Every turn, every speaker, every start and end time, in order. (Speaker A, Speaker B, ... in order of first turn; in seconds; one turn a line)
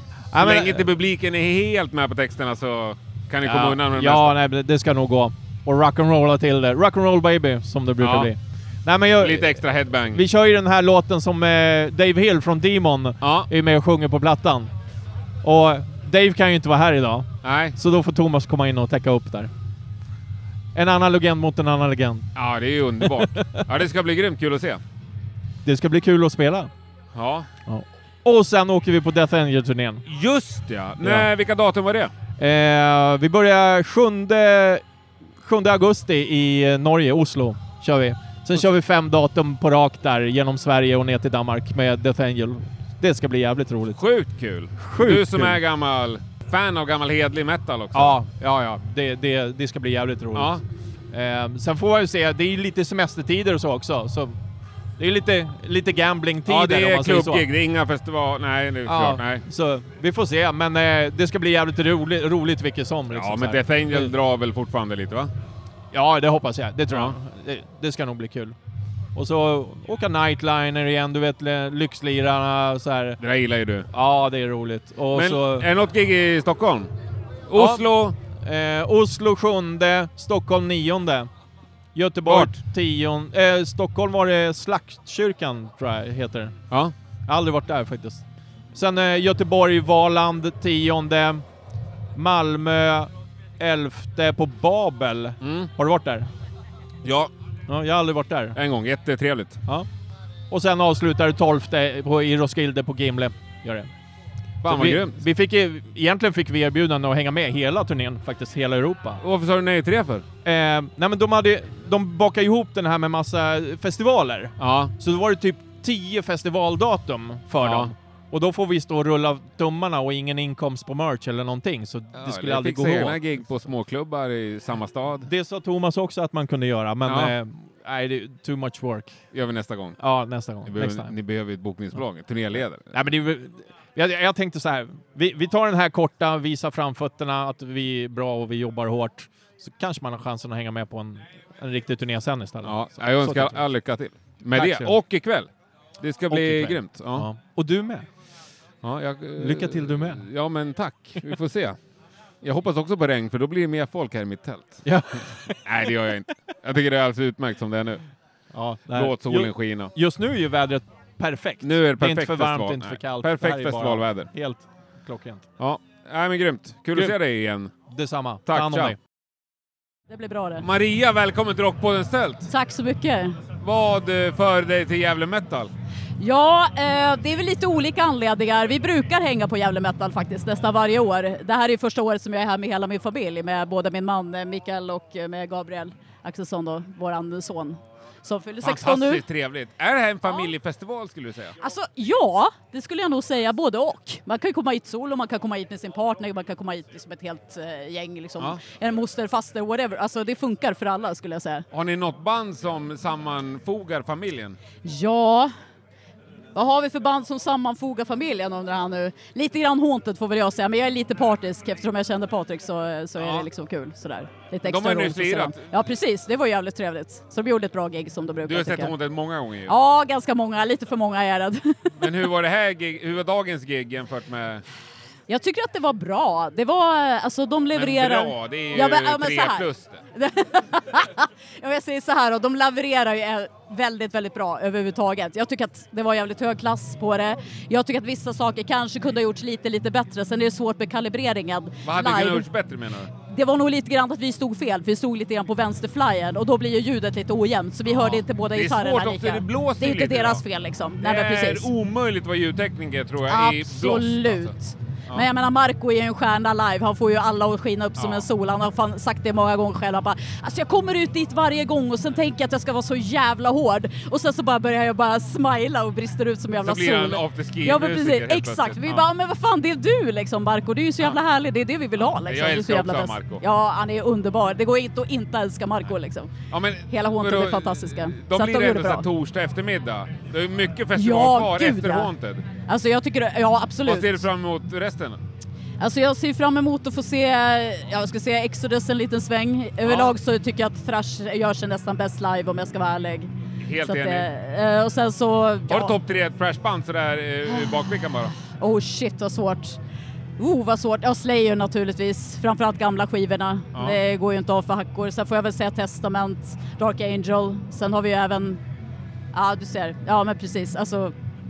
Speaker A: 0.3-0.9
Speaker B: 0.3-4.3
Speaker A: 3.5-14.7
Speaker B: 8.0-8.3
Speaker B: 9.2-10.2
Speaker B: 13.2-13.5
Speaker A: 15.4-19.5
Speaker B: 17.4-17.8
Speaker A: 20.8-22.3
Speaker B: 22.4-24.8
Speaker A: 23.0-23.6
Speaker A: 25.6-26.7
Speaker B: 27.1-27.5
Speaker A: 27.7-30.0
Speaker B: 30.1-32.1
Speaker A: 31.0-31.3
Speaker A: 32.4-34.8
Speaker A: 35.4-44.0
Speaker B: 44.0-48.2
Speaker A: 44.8-45.6
Speaker A: 47.9-50.5
Speaker B: 50.3-50.6
Speaker A: 51.1-54.4
Speaker A: 55.0-57.5
Speaker B: 56.5-59.4
Speaker A: 58.9-64.1
Speaker B: 63.1-65.3
Speaker A: 65.9-68.6
Speaker B: 66.9-67.2
Speaker A: 69.2-73.2
Speaker B: 73.2-73.9
Speaker A: 73.9-75.7
Speaker B: 75.1-76.9
Speaker B: 77.5-78.2
Speaker A: 77.5-77.9
Speaker A: 78.4-81.3
Speaker A: 82.0-86.5
Speaker B: 82.3-82.6
Speaker A: 87.3-88.2
Speaker A: 88.7-91.4
Speaker A: 92.2-96.3
Speaker B: 95.4-95.7
Speaker B: 97.0-97.3
Speaker A: 97.7-98.6
Speaker B: 98.5-99.6
Speaker A: 100.5-103.9
Speaker B: 104.6-105.2
Speaker A: 104.7-109.2
Speaker B: 109.2-110.2
Speaker A: 110.5-123.2
Speaker B: 114.6-114.9
Speaker B: 117.6-117.9
Speaker B: 122.2-125.3
Speaker A: 125.2-129.2
Speaker B: 127.1-127.3
Speaker B: 129.3-130.0
Speaker A: 130.0-131.1
Speaker B: 130.7-132.9
Speaker A: 132.9-143.6
Speaker B: 142.6-147.3
Speaker A: 144.5-145.0
Speaker A: 146.3-148.1
Speaker B: 148.8-151.8
Speaker A: 149.4-150.2
Speaker B: 152.4-154.9
Speaker A: 154.8-155.9
Speaker B: 155.6-158.0
Speaker A: 158.5-165.4
Speaker B: 158.9-159.9
Speaker B: 161.6-164.3
Speaker B: 165.6-167.7
Speaker A: 167.9-169.0
Speaker B: 168.5-168.9
Speaker C: 170.1-170.7
Speaker B: 170.6-172.5
Speaker C: 172.5-173.4
Speaker B: 173.6-175.7
Speaker C: 176.2-189.2
Speaker B: 188.6-191.6
Speaker C: 191.6-201.7
Speaker B: 201.7-204.6
Speaker C: 204.8-205.5
Speaker C: 206.6-218.9
Speaker B: 213.2-213.5
Speaker B: 214.7-215.7
Speaker B: 218.5-219.7
Speaker C: 219.7-221.8
Speaker B: 222.0-224.6
Speaker C: 225.3-242.5
Speaker B: 227.7-230.0
Speaker B: 241.8-243.1
Speaker C: 243.3-251.7
Speaker B: 247.9-250.4
Speaker B: 251.0-254.5
Speaker C: 253.3-276.3
Speaker B: 258.0-258.3
Speaker B: 266.6-269.1
Speaker B: 272.0-273.4
Speaker B: 276.5-282.4
Speaker C: 276.9-279.1
Speaker C: 280.9-282.1
Speaker C: 282.7-284.3
Speaker B: 283.9-285.2
Speaker C: 285.8-293.3
Speaker B: 289.8-290.1
Speaker B: 293.6-294.3
Speaker C: 293.8-296.0
Speaker B: 295.7-298.3
Speaker C: 298.5-299.8
Speaker C: 300.4-308.6
Speaker C: 309.3-311.1